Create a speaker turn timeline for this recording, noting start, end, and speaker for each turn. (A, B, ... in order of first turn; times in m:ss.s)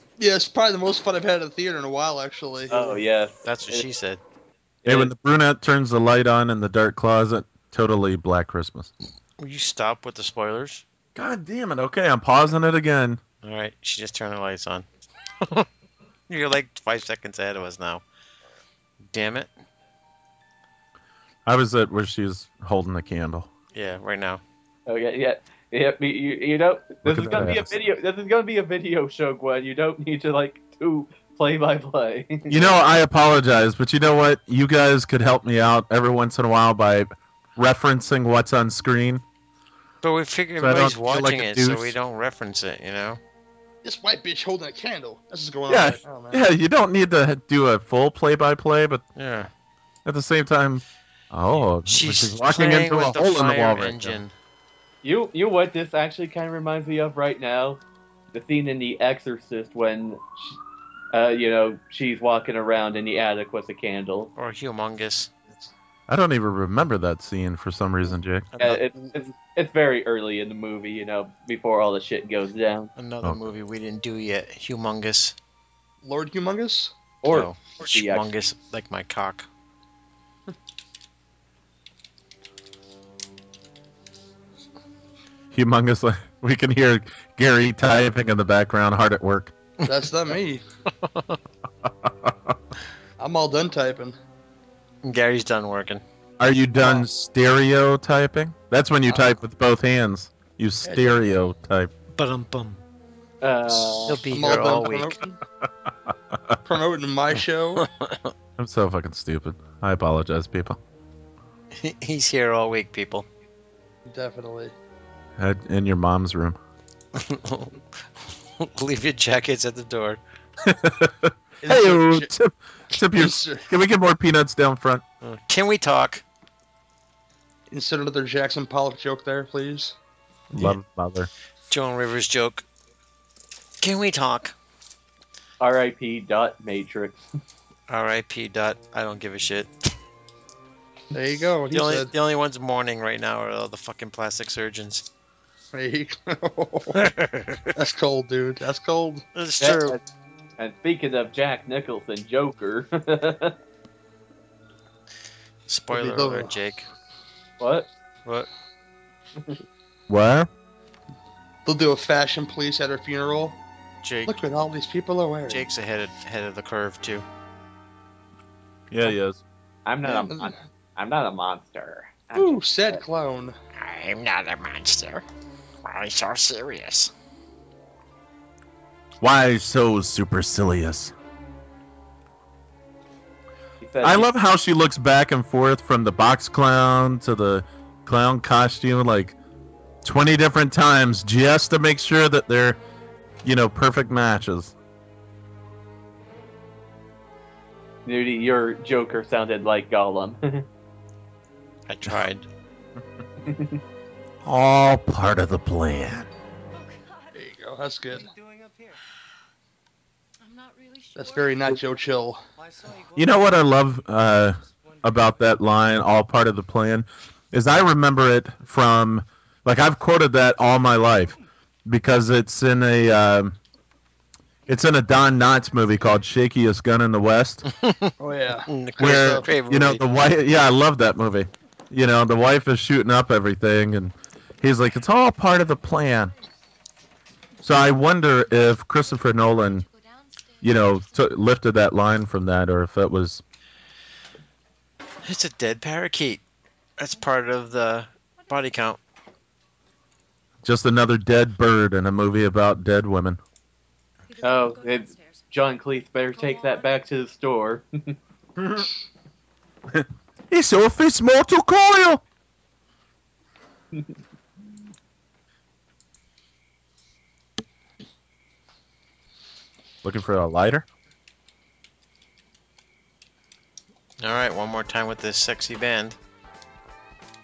0:00.2-0:03.0 A
0:02.7-0:03.8 B
0:03.4-0:04.2 C
0:04.8-0:05.1 B
0:04.8-0:08.9 D
0:09.4-0:10.8 C
0:11.1-0:13.2 D
0:13.4-0:14.9 C
0:16.3-0:18.0 C
0:19.1-0:19.5 C
0:21.4-0:23.5 D
0:23.7-0:24.4 C
0:24.9-0:32.8 B
0:27.0-0:27.8 D
0:32.5-0:39.2 D
0:40.0-0:43.2 C
0:40.6-0:42.0 D
0:43.8-0:46.4 A
0:45.7-0:49.0 D
0:49.2-0:49.5 C
0:50.0-0:54.2 D
0:51.9-0:54.3 C
0:55.0-0:57.8 B
0:58.3-1:00.6 B
1:01.1-1:04.3 B
1:04.4-1:05.3 C
1:06.1-1:08.5 D
1:08.5-1:08.8 C
1:08.6-1:12.9 B
1:13.0-1:15.4 C
1:16.0-1:16.9 A
1:17.2-1:18.3 B
1:17.3-1:19.5 C
1:25.5-1:29.5 D
1:29.8-1:30.6 A
1:31.0-1:31.4 C
1:31.8-1:32.6 D
1:33.2-1:34.2 A
1:35.0-1:36.0 C
1:36.4-1:41.9 D
1:36.8-1:37.1 A
1:40.8-1:41.2 A
1:42.1-1:42.8 C
1:43.4-1:44.2 B
1:44.1-1:45.2 C
1:44.2-1:45.4 A
1:45.6-1:46.6 D
1:46.6-1:47.9 A
1:47.8-1:48.3 C
1:48.6-1:50.8 D
1:51.8-1:53.3 C
1:54.1-1:54.7 A
1:55.4-1:56.6 D
1:57.1-2:00.2 C
2:00.6-2:05.0 D
2:01.6-2:02.3 A
2:03.0-2:03.7 A
2:05.2-2:06.2 C
2:07.7-2:10.0 A
2:10.5-2:11.3 D
2:11.7-2:12.6 C
2:13.8-2:14.6 C
2:15.6-2:17.2 B
2:17.9-2:19.9 C
2:21.1-2:22.1 A
2:21.7-2:25.1 C
2:25.7-2:27.0 A
2:26.9-2:27.8 C
2:27.8-2:29.2 A
2:29.3-2:30.0 C
2:29.6-2:30.0 B
2:30.6-2:33.6 B
2:35.7-2:36.9 C
2:35.9-2:36.5 A
2:37.6-2:37.9 B
2:40.1-2:40.5 D
2:41.7-2:43.6 A
2:44.0-2:44.4 C
2:44.3-2:45.7 A
2:45.5-2:47.2 C
2:48.9-2:49.4 D
2:49.9-2:53.0 B
2:50.0-2:50.6 A
2:52.4-2:53.6 A
2:53.8-2:55.2 C
2:55.8-2:57.1 C
2:59.2-3:01.1 D
3:03.8-3:04.3 B
3:04.0-3:09.4 D
3:10.0-3:12.8 D
3:13.4-3:14.7 D
3:18.1-3:20.7 B
3:21.9-3:22.4 C
3:23.4-3:23.8 B
3:24.4-3:26.3 D
3:26.7-3:27.4 E
3:27.3-3:28.3 A
3:28.1-3:29.0 F
3:30.4-3:32.0 E
3:31.2-3:32.4 A
3:32.6-3:33.8 F
3:33.2-3:43.6 D
3:34.4-3:35.6 F
3:44.7-3:47.6 D
3:47.7-3:48.1 C
3:48.2-3:49.5 A
3:48.7-3:50.0 C
3:49.0-3:56.3 D
3:57.6-3:59.9 D
3:58.7-4:01.4 E
4:00.6-4:03.4 D
4:05.2-4:06.4 C
4:07.0-4:09.0 C
4:08.4-4:08.8 E
4:10.6-4:13.4 D
4:14.3-4:17.1 E
4:14.4-4:18.2 B
4:18.6-4:18.9 D
4:19.9-4:22.2 D
4:30.0-4:30.9 D
4:34.2-4:36.2 C